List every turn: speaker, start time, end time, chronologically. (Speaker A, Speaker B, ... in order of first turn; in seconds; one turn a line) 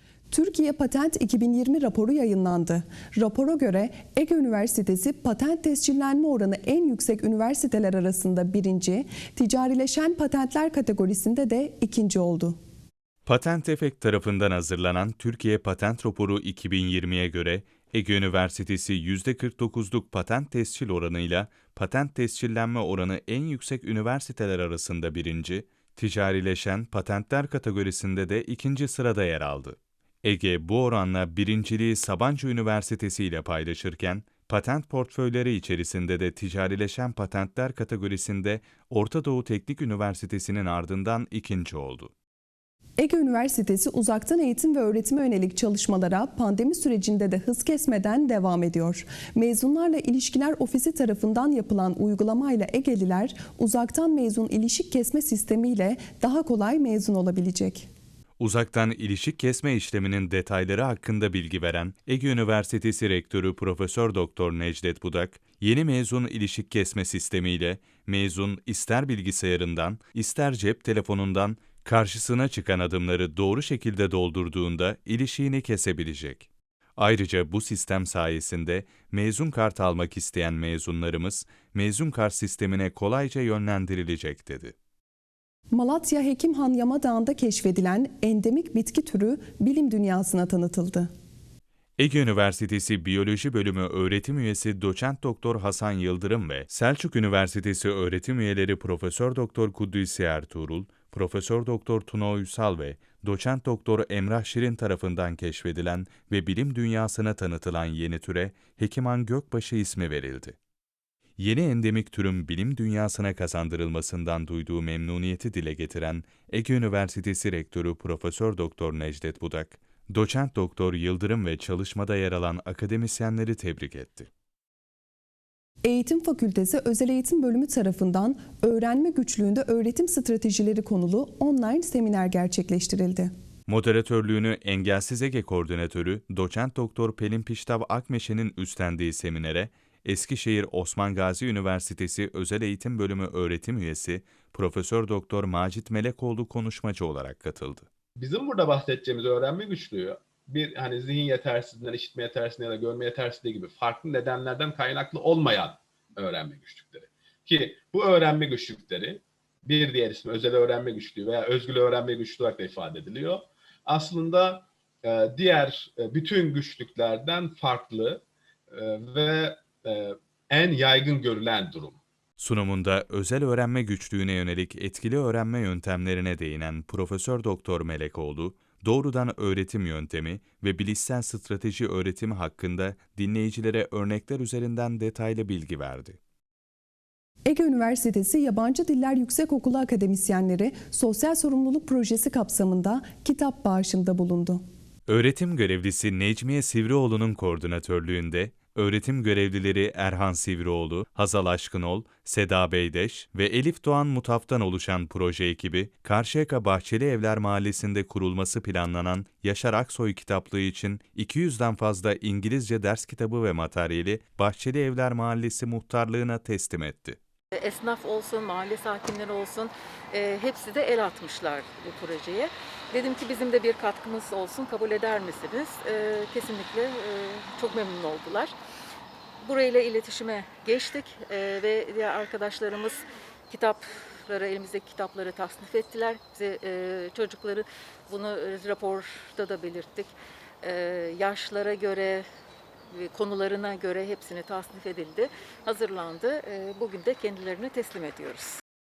Speaker A: 0.3-12.6
Speaker B: 13.3-42.1
Speaker A: 43.0-57.9
Speaker B: 58.4-84.8
Speaker A: 85.7-91.1
Speaker B: 92.0-110.6
Speaker B: 111.4-124.3
Speaker A: 125.8-133.3
Speaker B: 133.7-147.9
Speaker C: 148.2-172.0
Speaker B: 172.4-186.2
Speaker A: 187.5-194.6
Speaker B: 195.1-217.2
Speaker D: 217.6-228.6
Speaker D: 229.4-242.3
Speaker D: 242.9-248.6